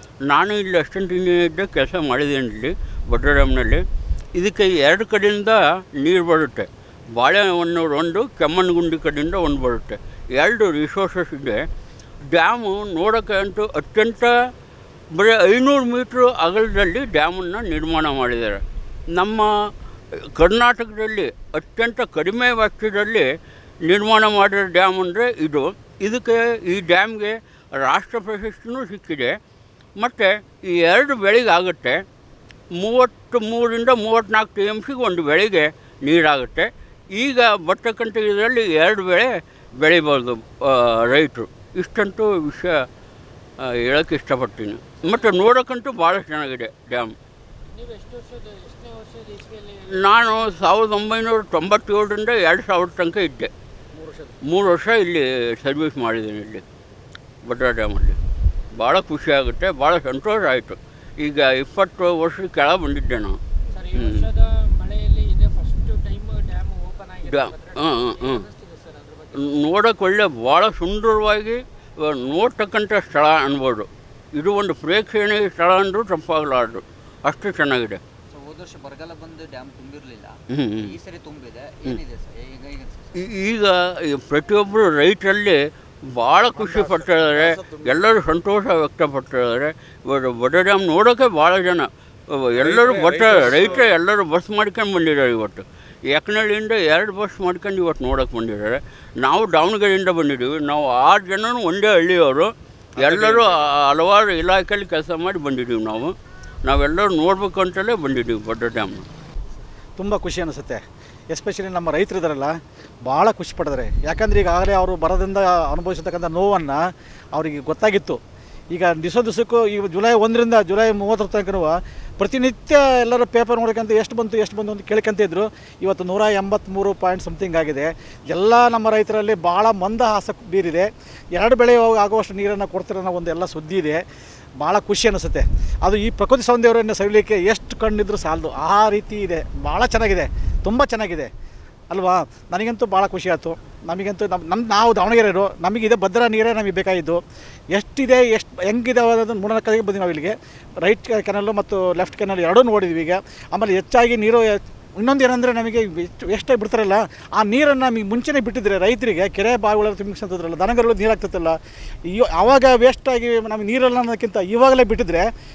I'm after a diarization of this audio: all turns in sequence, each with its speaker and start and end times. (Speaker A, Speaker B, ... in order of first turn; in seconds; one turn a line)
Speaker A: 0.3-3.8
Speaker A: 4.4-11.6
Speaker A: 12.3-14.3
Speaker A: 15.2-18.6
Speaker A: 19.2-19.5
Speaker A: 20.4-23.3
Speaker A: 23.9-29.3
Speaker A: 30.0-32.0
Speaker A: 32.8-39.3
Speaker A: 39.8-42.8
Speaker A: 43.6-47.1
Speaker B: 47.7-50.0
Speaker A: 49.9-53.5
Speaker B: 54.0-54.3
Speaker A: 54.5-56.6
Speaker A: 57.5-58.2
Speaker A: 58.8-63.4
Speaker B: 63.8-69.4
Speaker A: 63.9-64.3
Speaker A: 67.2-68.5
Speaker A: 69.3-78.0
Speaker C: 78.3-83.1
Speaker A: 80.5-81.0
Speaker A: 83.2-85.6
Speaker A: 86.2-109.0
Speaker D: 103.0-103.4
Speaker D: 110.0-118.2
Speaker D: 118.7-134.0
Speaker D: 134.6-141.3
Speaker D: 141.9-147.2
Speaker D: 147.7-161.6
Speaker D: 162.1-165.2